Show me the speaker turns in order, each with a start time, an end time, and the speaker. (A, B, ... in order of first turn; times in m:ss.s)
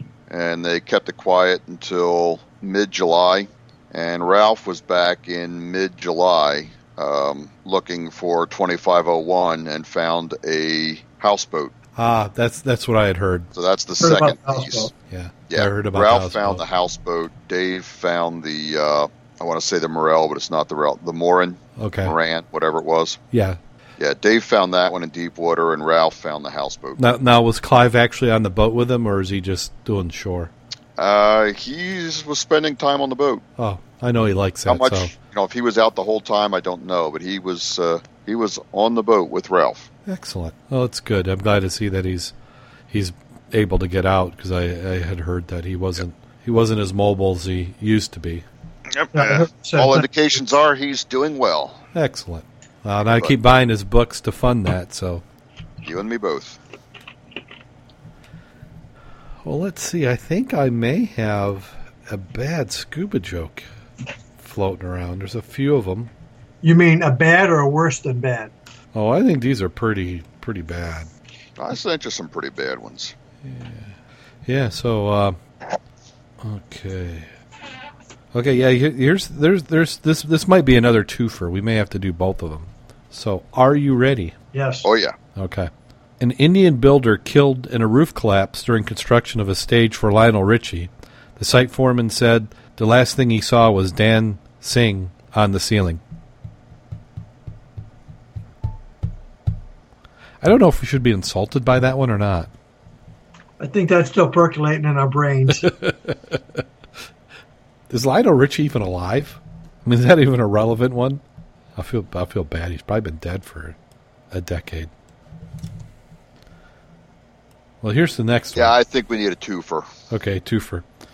0:00.3-0:11.7 A
0:12.0-0:13.5 B
0:13.5-0:14.9 A
0:14.0-0:14.9 C
0:15.1-0:16.6 B
0:15.5-0:23.2 A
0:21.8-0:22.1 B
0:23.3-0:23.6 B
0:24.0-0:27.0 A
0:27.0-0:30.5 B
0:31.0-0:33.4 A
0:33.6-0:35.1 B
0:34.6-0:39.9 A
0:40.0-0:42.3 B
0:42.9-0:48.4 B
0:48.9-0:51.8 A
0:49.1-0:50.1 C
0:51.9-0:55.2 B
0:55.8-0:56.6 A
0:59.4-1:03.6 B
1:04.4-1:06.1 B
1:06.6-1:08.5 C
1:08.9-1:11.1 B
1:11.6-1:13.1 A
1:13.4-1:15.4 B
1:16.4-1:17.3 B
1:18.3-1:24.3 B
1:24.5-1:24.9 C
1:24.8-1:25.2 A
1:25.4-1:36.0 B
1:40.4-1:42.5 B
1:43.6-1:45.7 C
1:45.6-1:46.6 B
1:47.9-1:51.2 B
1:51.8-1:53.8 B
1:54.3-1:54.9 B
1:57.8-1:58.8 B
1:58.5-1:59.9 A
2:00.1-2:00.8 B